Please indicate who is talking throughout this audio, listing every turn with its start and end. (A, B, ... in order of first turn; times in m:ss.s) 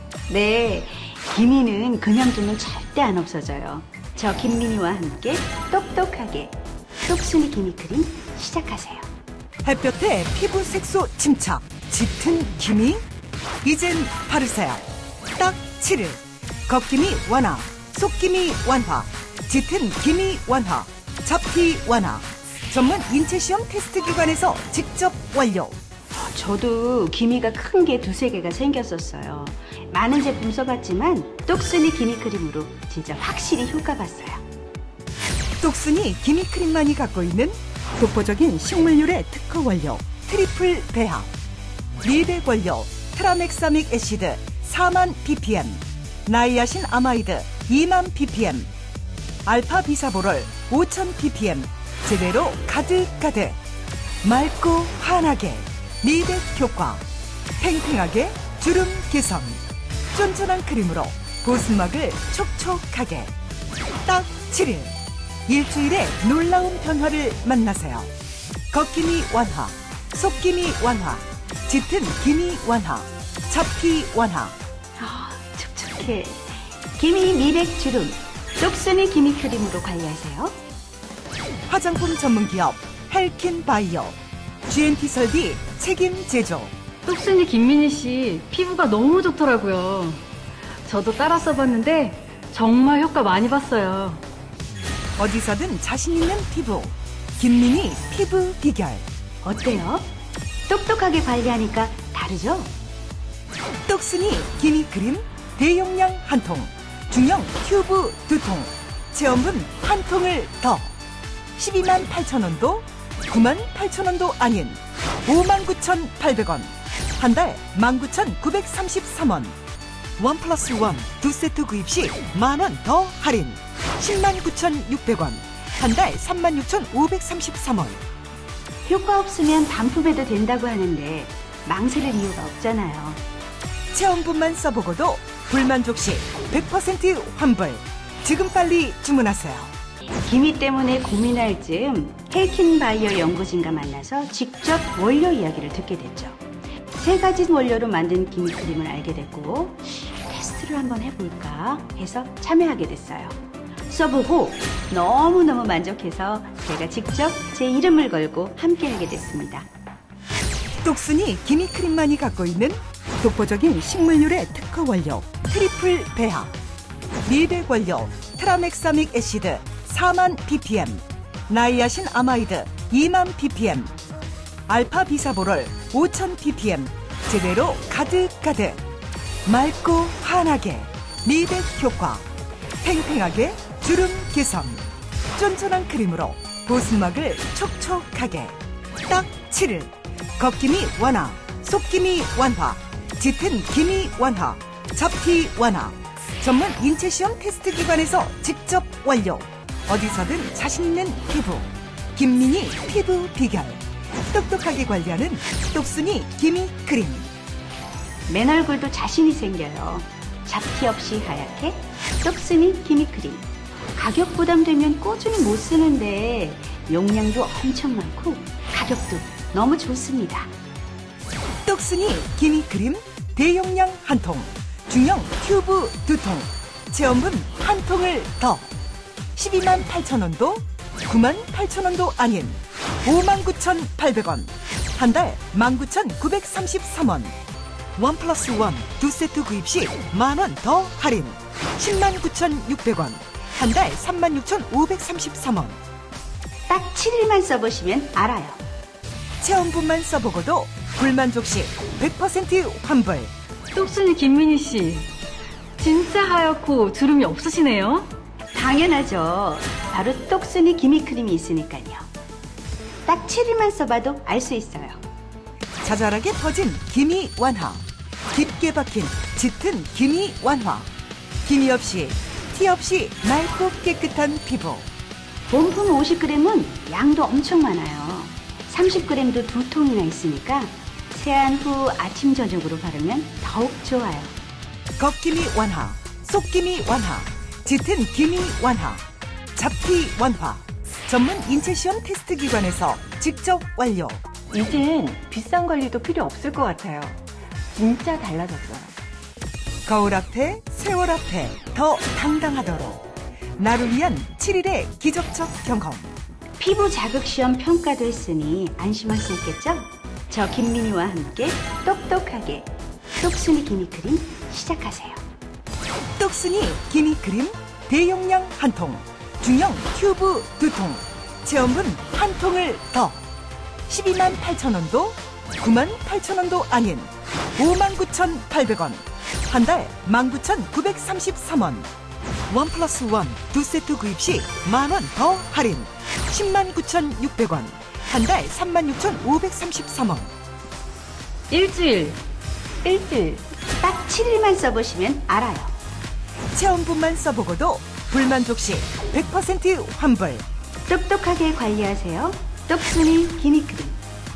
0:00.3-0:09.1 A
0:09.6-0:13.0 B
0:13.6-0:14.8 B
0:15.4-0:25.8 B
0:26.1-0:34.4 A
0:35.6-0:41.3 B
0:42.0-0:48.7 B
0:49.4-0:53.6 B
0:54.2-0:57.0 B
0:57.6-0:59.6 B
1:00.1-1:03.3 B
1:04.0-1:04.9 B
1:05.5-1:08.1 B
1:08.7-1:14.5 B
1:15.0-1:20.6 A
1:21.7-1:24.1 B
1:24.7-1:26.7 B
1:27.0-1:30.2 C
1:30.8-1:34.2 C
1:35.2-1:39.0 B
1:39.4-1:40.0 A
1:40.7-1:42.7 A
1:43.8-1:50.9 B
1:51.6-1:59.5 B
2:00.2-2:08.0 B
2:08.8-2:13.2 A
2:13.9-2:19.7 B
2:20.2-2:26.4 A
2:27.0-2:33.3 A
2:33.9-2:39.7 A
2:40.8-2:46.5 B
2:47.2-2:53.9 B
2:54.7-2:58.8 B
2:59.4-3:02.2 B
3:02.8-3:04.8 B
3:05.4-3:08.5 B
3:09.1-3:27.3 B
3:28.3-3:40.5 A
3:41.6-3:48.7 B
3:49.4-3:57.3 B
3:58.0-4:05.8 B
4:06.7-4:08.6 A
4:09.4-4:13.3 B
4:13.7-4:15.1 C
4:15.8-4:18.1 C
4:18.5-4:22.0 A
4:23.0-4:25.0 A
4:25.8-4:30.9 B
4:31.4-4:34.8 B
4:35.5-4:44.3 A
4:45.0-4:49.0 B
4:49.6-4:54.2 B
4:54.5-4:57.2 D
4:57.7-4:58.9 D
4:59.8-5:03.0 B
5:03.6-5:06.1 B
5:06.6-5:15.2 A
5:16.2-5:23.2 B
5:23.9-5:31.9 B
5:32.5-5:40.3 B
5:41.5-5:42.2 C
5:42.8-5:43.4 C
5:43.8-5:45.7 A
5:46.5-5:50.4 B
5:50.9-5:54.0 A